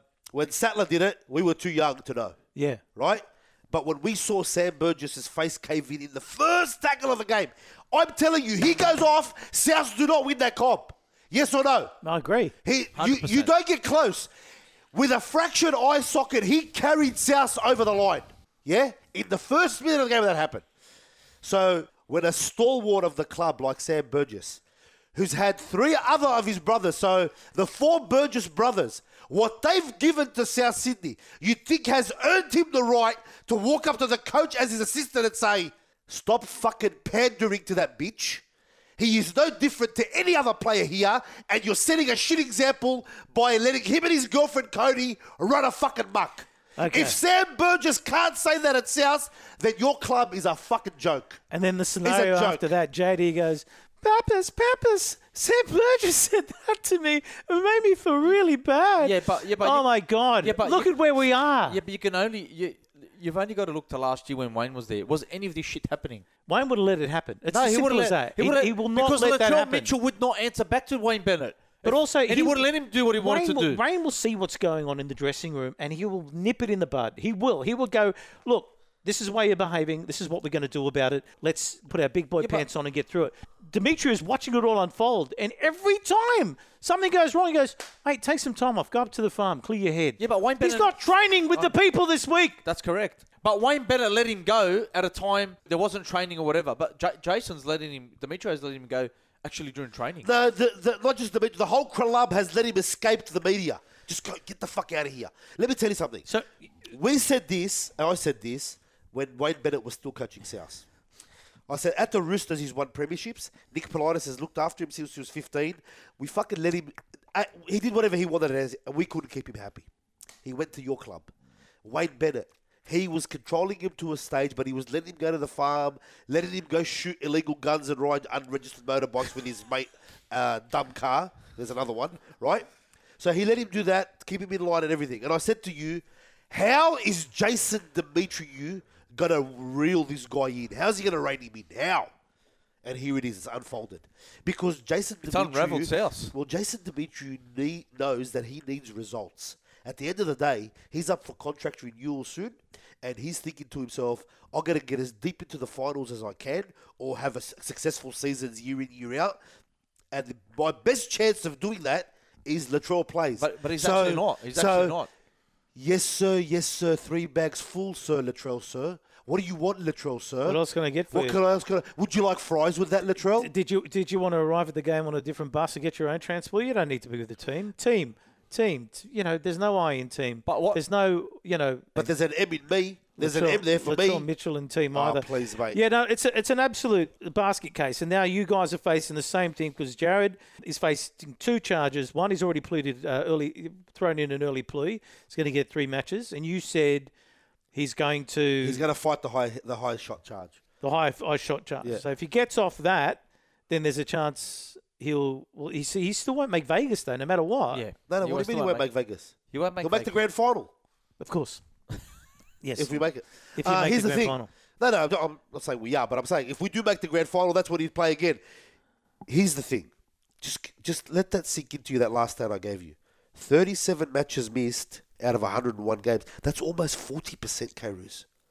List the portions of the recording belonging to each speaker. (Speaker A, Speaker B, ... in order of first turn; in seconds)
Speaker A: 0.3-2.4, 3.0-11.9, 12.6-14.3, 14.9-20.6, 21.4-24.6, 25.1-38.4, 39.0-51.4, 52.0-52.7, 100.2-106.3, 106.9-110.8, 111.7-119.9, 120.4-121.3, 121.8-132.7, 133.2-142.1, 142.8-159.4, 160.1-165.0, 165.7-170.6, 171.1-173.5, 181.9-184.3, 184.9-185.8, 198.6-200.6, 208.1-210.7, 212.8-218.4, 219.3-228.2
Speaker B: 2.5-2.8, 12.0-12.5, 46.8-47.2, 51.5-61.8, 66.5-69.9, 71.8-72.7, 73.2-92.6, 170.4-171.4, 173.4-182.1, 183.2-197.1, 197.7-198.8, 200.8-207.8, 211.2-211.6, 212.6-213.0, 213.6-214.5
Speaker C: 12.9-13.5, 59.0-59.9, 60.4-60.9, 61.7-66.2, 67.5-73.8, 82.4-82.7, 90.2-90.9, 92.6-100.3, 145.3-146.3, 163.4-165.1, 180.5-180.8, 207.7-208.9, 209.5-210.2